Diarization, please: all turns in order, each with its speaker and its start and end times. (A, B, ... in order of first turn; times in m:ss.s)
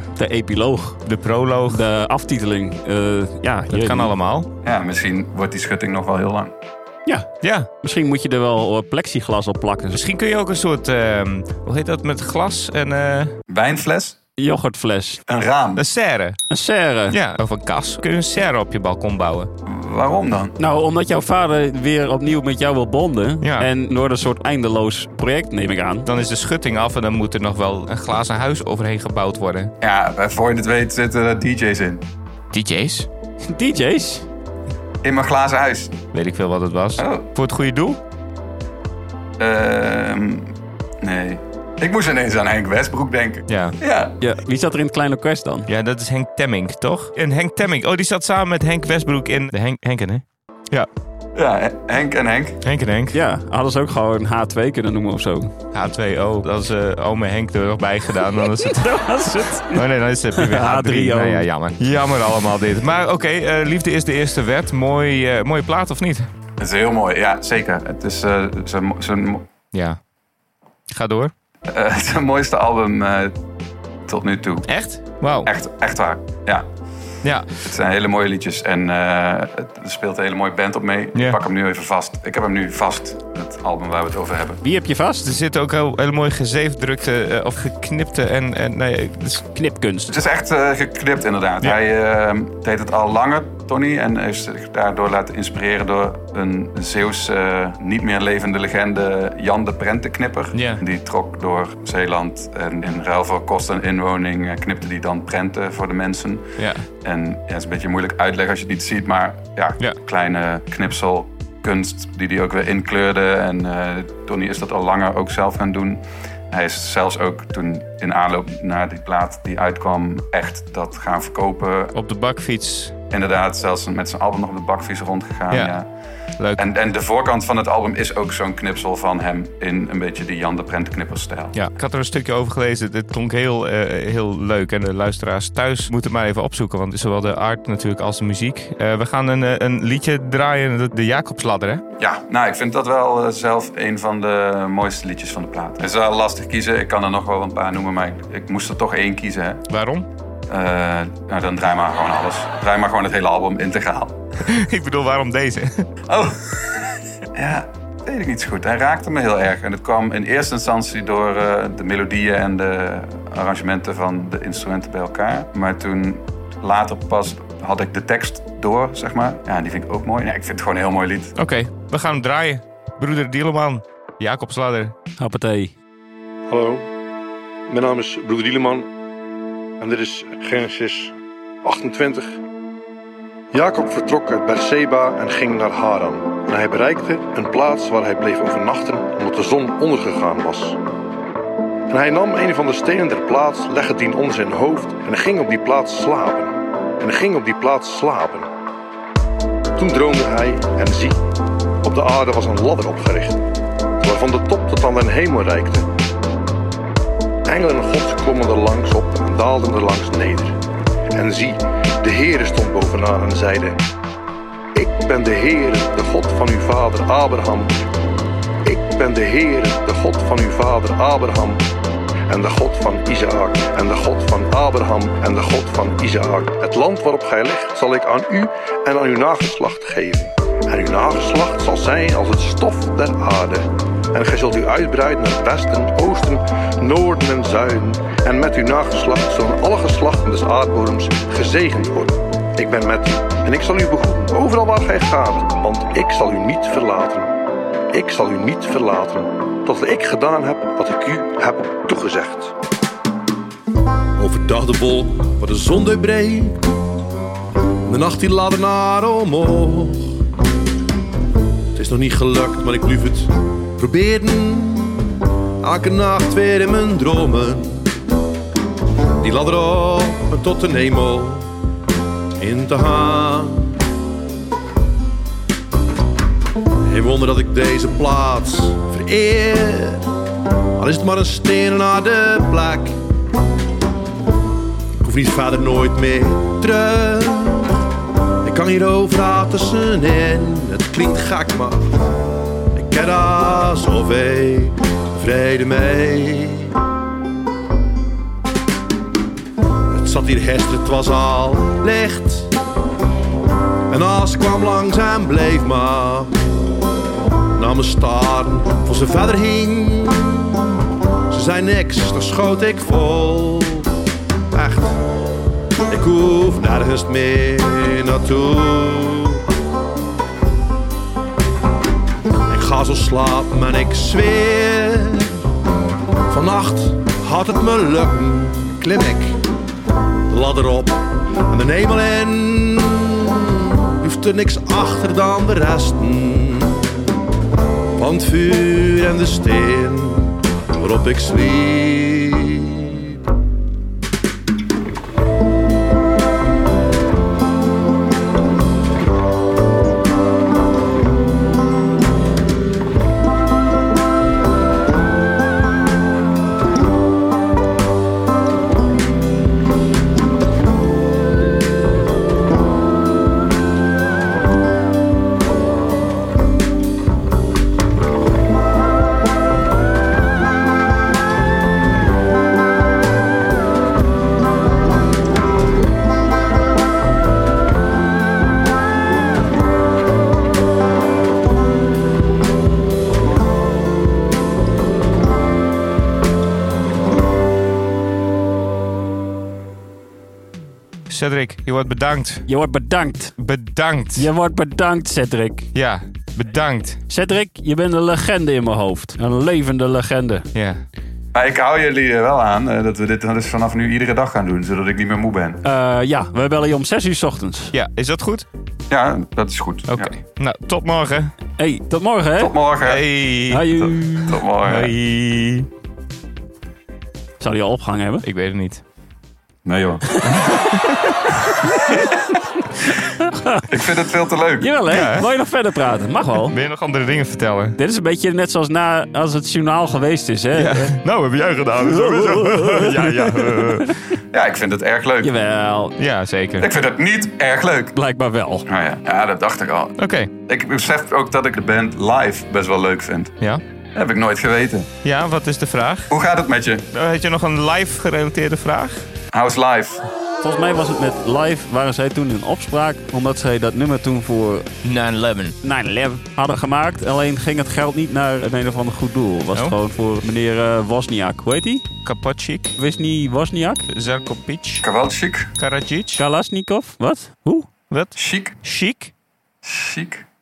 0:00.2-0:01.0 A
0:01.0-0:01.8 B
0:01.7-0:04.1 A
0:03.7-0:04.5 B
0:04.6-0:06.5 C
0:07.4-0:07.7 B
0:07.8-0:10.0 A
0:09.9-0:13.3 B
0:13.5-0:14.1 C
0:14.4-0:15.2 A
0:15.3-0:15.8 C
0:15.8-0:16.4 B
0:16.5-0:17.2 A
0:17.1-0:19.5 B
0:19.6-0:20.5 C
0:20.6-0:26.1 A
0:23.4-0:23.7 B
0:26.0-0:29.7 B
0:29.8-0:32.0 C
0:32.5-0:33.1 B
0:33.5-0:34.2 A
0:35.0-0:35.9 C
0:36.1-0:38.0 B
0:37.0-0:37.3 C
0:39.4-0:44.2 C
0:43.5-0:43.8 B
0:44.2-0:45.7 A
0:45.7-0:50.9 B
0:51.3-0:52.6 C
0:52.6-0:53.2 B
0:53.1-0:55.5 A
0:55.7-0:58.9 B
0:58.6-0:59.8 A
0:59.7-1:06.3 B
1:00.4-1:01.4 A
1:06.6-1:09.4 C
1:09.7-1:10.0 B
1:10.9-1:11.3 B
1:11.7-1:13.3 C
1:14.1-1:14.7 C
1:14.6-1:15.5 B
1:15.4-1:16.6 C
1:17.6-1:24.6 C
1:24.6-1:25.2 A
1:25.2-1:29.4 B
1:29.5-1:30.2 A
1:30.1-1:46.5 C
1:40.5-1:40.8 B
1:46.6-1:46.8 B
1:47.0-2:01.9 C
2:01.9-2:02.9 B
2:03.1-2:05.8 C
2:06.6-2:11.5 C
2:11.5-2:21.8 B
2:22.0-2:29.6 C
2:29.7-2:30.0 B
2:30.5-2:34.2 C
2:34.4-2:35.8 B
2:36.1-2:36.8 C
2:37.3-2:51.3 C
2:51.4-2:54.9 B
2:55.2-2:55.7 A
2:56.5-2:56.8 D
2:57.7-2:58.8 D
2:59.8-3:01.1 D
3:01.6-3:02.3 D
3:03.5-3:10.8 D
3:11.9-3:18.5 D
3:19.8-3:21.2 D
3:21.8-3:23.4 D
3:24.0-3:25.9 D
3:27.4-3:30.6 D
3:31.1-3:33.8 D
3:34.7-3:37.7 D
3:38.6-3:41.6 D
3:42.3-4:07.3 D
4:07.9-4:12.5 D
4:14.2-4:16.6 E
4:17.8-4:20.2 E
4:21.7-4:27.9 E
4:29.2-4:31.5 E
4:32.4-4:33.8 E
4:36.8-4:40.0 E
4:40.8-4:42.9 E
4:45.0-4:47.7 E
4:48.4-4:52.0 E
4:52.7-4:56.7 E
4:59.9-5:02.5 E
5:03.9-5:06.3 E
5:07.6-5:10.8 E
5:11.3-5:13.9 E
5:14.5-5:15.0 E
5:15.9-5:19.4 E
5:22.5-5:25.4 E
5:26.3-5:29.4 E
5:30.3-5:37.1 E
5:38.0-5:43.1 E
6:31.1-6:32.5 B
6:32.5-6:33.3 A
6:33.4-6:34.3 B
6:34.2-6:35.7 A
6:35.7-6:37.0 B
6:37.1-6:40.5 A
6:40.5-6:40.8 B
6:41.3-6:45.6 C
6:45.6-6:47.7 A
6:47.7-6:48.4 B
6:48.9-6:50.1 C
6:49.9-6:51.3 B
6:51.6-6:52.5 A
6:52.4-6:53.1 C
6:52.8-6:53.7 B
6:53.5-6:54.4 A
6:53.9-6:54.9 C
6:54.6-6:55.7 B
6:57.4-6:58.2 A
6:58.2-6:58.8 B
6:59.6-7:00.2 C
7:00.5-7:01.0 B
7:03.7-7:04.7 C
7:04.6-7:06.5 A
7:04.9-7:05.3 B
7:06.5-7:07.8 B
7:07.8-7:10.9 A
7:10.6-7:13.9 B
7:11.8-7:13.9 A
7:14.3-7:15.3 C
7:15.2-7:15.9 A
7:16.0-7:16.7 B
7:16.6-7:17.9 C
7:17.9-7:18.6 A
7:18.7-7:20.0 C
7:20.0-7:20.3 B
7:20.5-7:23.3 C
7:23.9-7:24.9 C
7:25.0-7:26.1 B
7:26.1-7:26.8 C
7:26.9-7:29.0 B
7:29.3-7:30.0 C
7:30.4-7:34.7 A
7:34.8-7:35.5 B
7:35.6-7:41.9 A
7:42.0-7:42.7 B
7:42.8-7:43.8 A
7:43.9-7:44.8 B
7:44.8-7:45.5 C
7:45.6-7:46.2 B
7:46.2-7:47.7 A
7:47.9-7:49.1 B
7:48.2-7:48.5 C
7:49.6-7:50.2 C